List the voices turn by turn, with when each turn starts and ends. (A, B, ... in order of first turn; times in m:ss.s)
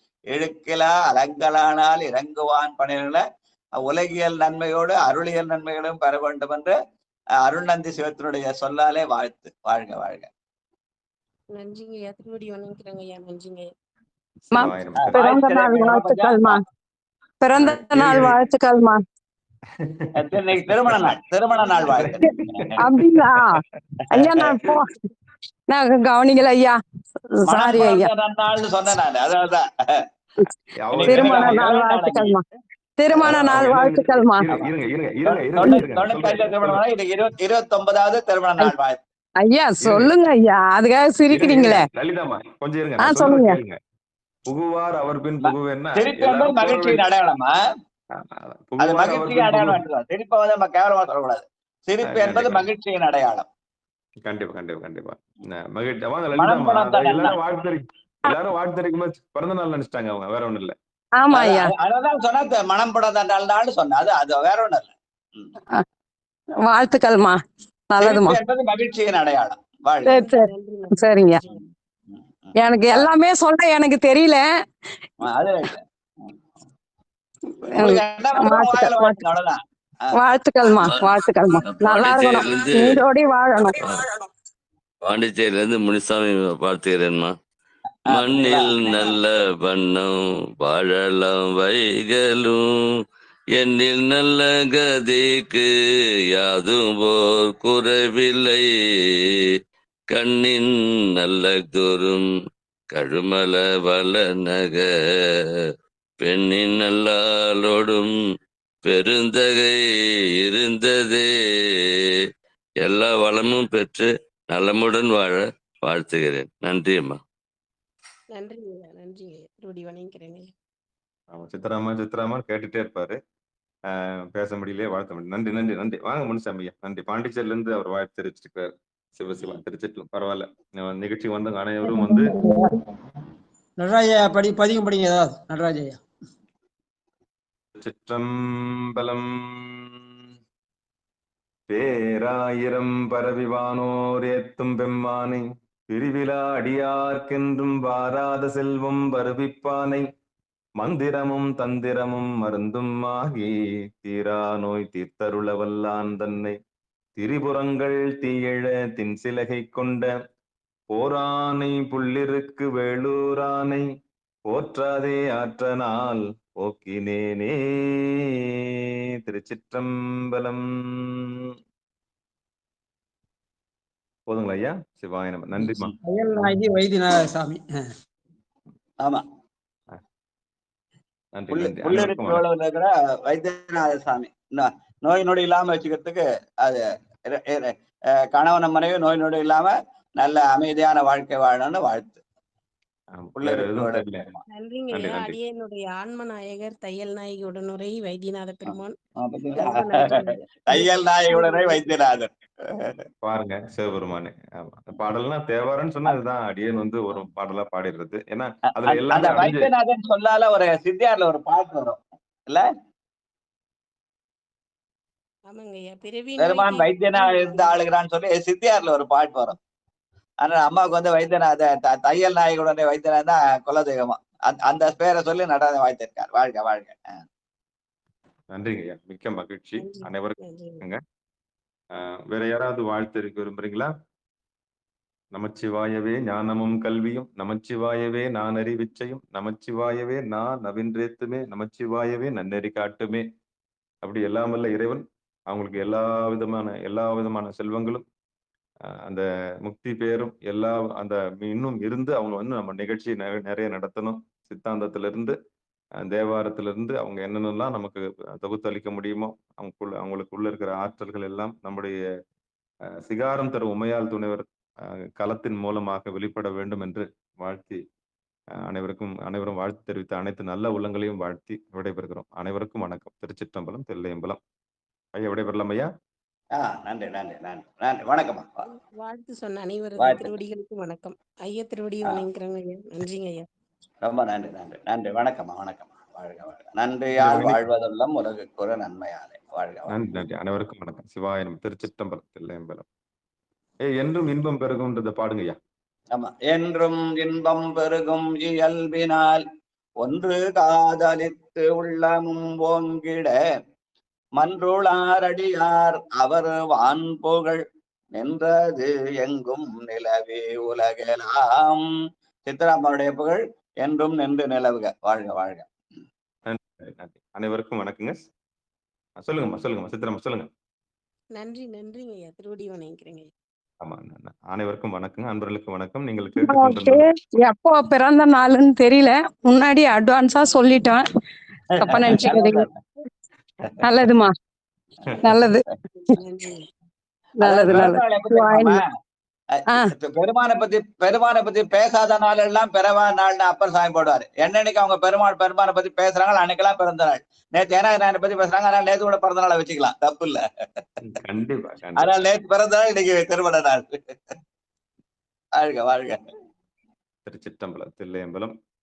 0:00.3-0:03.2 A
0:03.8-0:06.8 A
0:07.4-0:10.3 A
0:11.6-0:13.7 B
0:14.5-0:15.2 C
0:14.5-0:16.6 D
0:15.0-0:16.5 A
0:17.4-0:19.0 D
0:17.5-0:18.4 C
0:19.8-0:20.1 C
0:20.2-0:22.8 A
0:20.7-0:21.1 C
0:21.8-0:22.3 C
0:22.8-0:23.6 D
0:22.9-0:23.2 C
0:24.1-0:24.9 D
0:24.2-0:24.5 A
0:25.7-0:26.8 D
0:27.4-0:28.1 D
0:27.5-0:29.6 A
0:30.8-0:31.6 C
0:30.9-0:32.3 A
0:31.1-0:32.4 D
0:33.0-0:34.4 D
0:33.2-0:36.8 C
0:33.2-0:33.6 A
0:35.2-0:39.0 A
0:39.4-0:41.9 D
0:39.8-0:40.1 C
0:41.3-0:43.8 C
0:43.0-0:43.6 D
0:44.5-0:47.0 C
0:45.4-0:47.5 A
0:48.3-0:49.8 C
0:48.8-0:53.5 A
0:52.0-0:52.7 C
0:54.3-1:00.7 C
0:56.3-0:57.4 A
1:01.2-1:01.7 D
1:01.3-1:05.5 A
1:06.7-1:07.4 D
1:07.9-1:08.4 D
1:08.0-1:10.3 A
1:10.0-1:11.4 D
1:10.1-1:11.6 B
1:12.1-1:13.1 A
1:12.6-1:14.4 D
1:15.2-1:16.3 A
1:17.7-1:19.2 D
1:17.7-1:19.6 A
1:20.1-1:23.8 D
1:20.8-1:21.1 E
1:21.7-1:23.1 E
1:25.0-1:27.3 E
1:28.1-1:29.0 A
1:28.1-1:32.6 E
1:33.5-1:35.7 E
1:36.3-1:38.7 E
1:40.1-1:42.2 E
1:42.9-1:44.9 E
1:46.2-1:48.1 E
1:48.8-1:49.8 E
1:50.4-1:51.3 E
1:52.8-1:57.2 E
1:58.3-2:00.5 B
2:01.3-2:03.2 C
2:03.9-2:12.3 C
2:12.3-2:12.6 F
2:13.8-2:16.0 F
2:17.8-2:18.3 C
2:18.9-2:19.7 C
2:21.7-2:30.0 C
2:30.8-2:36.6 C
2:37.2-2:40.1 C
2:40.9-2:43.8 C
2:44.5-2:48.0 C
2:49.3-2:50.6 C
2:54.3-2:56.6 C
2:56.0-2:57.6 F
3:01.3-3:02.4 C
3:01.5-3:06.8 A
3:07.3-3:07.7 A
3:08.3-3:12.2 A
3:13.1-3:14.2 C
3:13.4-3:14.4 A
3:14.5-3:19.0 B
3:14.9-3:15.4 C
3:18.6-3:20.1 A
3:19.5-3:21.8 B
3:20.7-3:22.3 A
3:23.2-3:29.7 C
3:28.8-3:32.0 A
3:35.5-3:37.8 B
3:36.4-3:39.6 A
3:40.4-3:47.0 A
3:48.5-3:51.0 C
3:49.8-3:50.8 B
3:52.0-3:53.9 C
3:55.3-4:03.2 C
4:04.0-4:08.0 C
4:09.1-4:15.3 C
4:16.0-4:22.0 C
4:23.0-4:24.4 C
4:25.2-4:27.8 C
4:28.7-4:34.4 C
4:35.2-4:35.9 C
4:36.6-4:38.6 A
4:38.7-4:43.4 B
4:40.0-4:40.3 A
4:44.0-4:49.9 A
4:47.2-4:47.6 C
4:49.9-4:52.8 C
4:53.9-4:55.6 C
4:56.1-4:59.4 A
5:00.0-5:03.3 A
5:04.4-5:07.6 A
5:08.2-5:11.8 A
5:12.4-5:15.7 A
5:16.4-5:18.2 C
5:19.2-5:20.5 C
5:21.4-5:23.3 B
5:23.8-5:27.0 C
5:26.4-5:31.0 D
5:31.8-5:32.6 D
5:31.8-5:32.7 A
5:33.8-5:34.3 D
5:35.2-5:35.6 D
5:36.0-5:36.6 B
5:37.4-5:38.8 D
5:37.4-5:38.8 A
5:39.9-5:50.4 A
5:51.0-5:52.1 C
5:52.0-5:54.0 A
5:55.6-5:56.2 A
5:57.2-5:58.5 C